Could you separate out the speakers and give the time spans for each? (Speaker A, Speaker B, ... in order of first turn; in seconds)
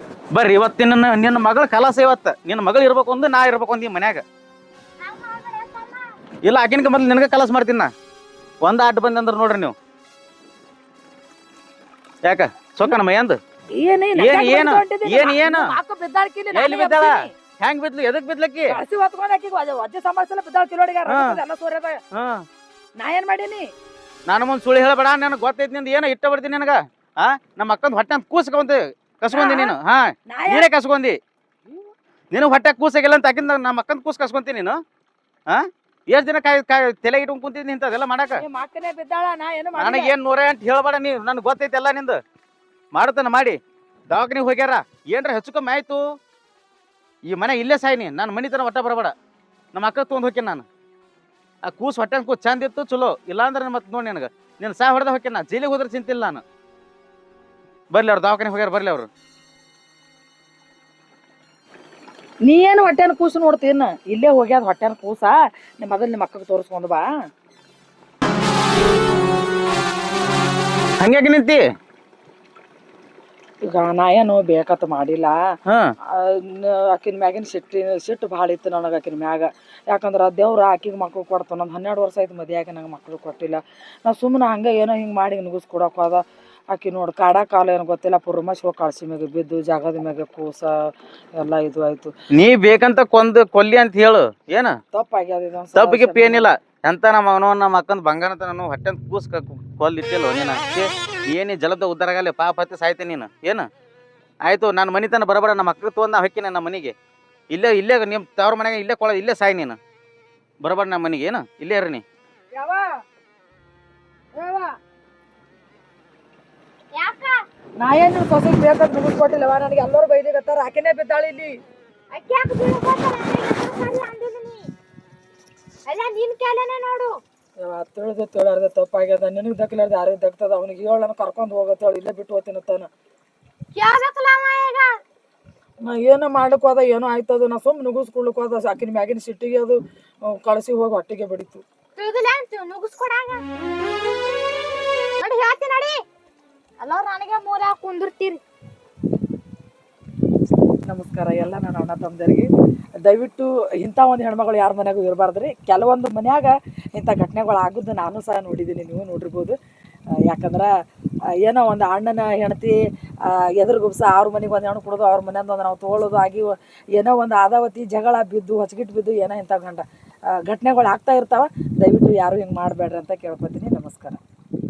Speaker A: 0.3-4.2, 6.5-7.9, 8.6-9.8, 12.2-13.4, 14.2-15.7, 16.5-18.8, 21.1-21.3, 24.3-31.2, 32.3-34.8, 35.5-38.4, 39.8-42.2, 42.9-43.6, 44.1-46.0, 47.3-49.1, 49.7-50.7, 51.7-56.4, 57.9-59.1, 71.0-71.6, 92.4-94.8, 95.8-103.7, 104.5-106.9, 107.5-109.8, 110.6-112.0
Speaker B: 5.4-6.0, 117.0-117.3, 122.2-124.7, 125.9-127.1, 133.8-134.9, 142.0-143.4, 145.2-145.9, 146.8-148.4
Speaker C: 13.8-17.3, 18.7-22.0, 23.0-23.7, 29.3-29.8, 30.3-30.7, 38.4-40.1, 62.4-67.1, 73.7-75.3, 76.1-86.2, 86.7-92.1, 94.9-96.5, 112.5-112.8, 114.4-114.7, 117.8-121.6, 127.6-132.9, 135.8-141.6, 150.8-152.5, 153.0-159.6, 160.3-160.7, 161.4-169.8, 170.4-174.2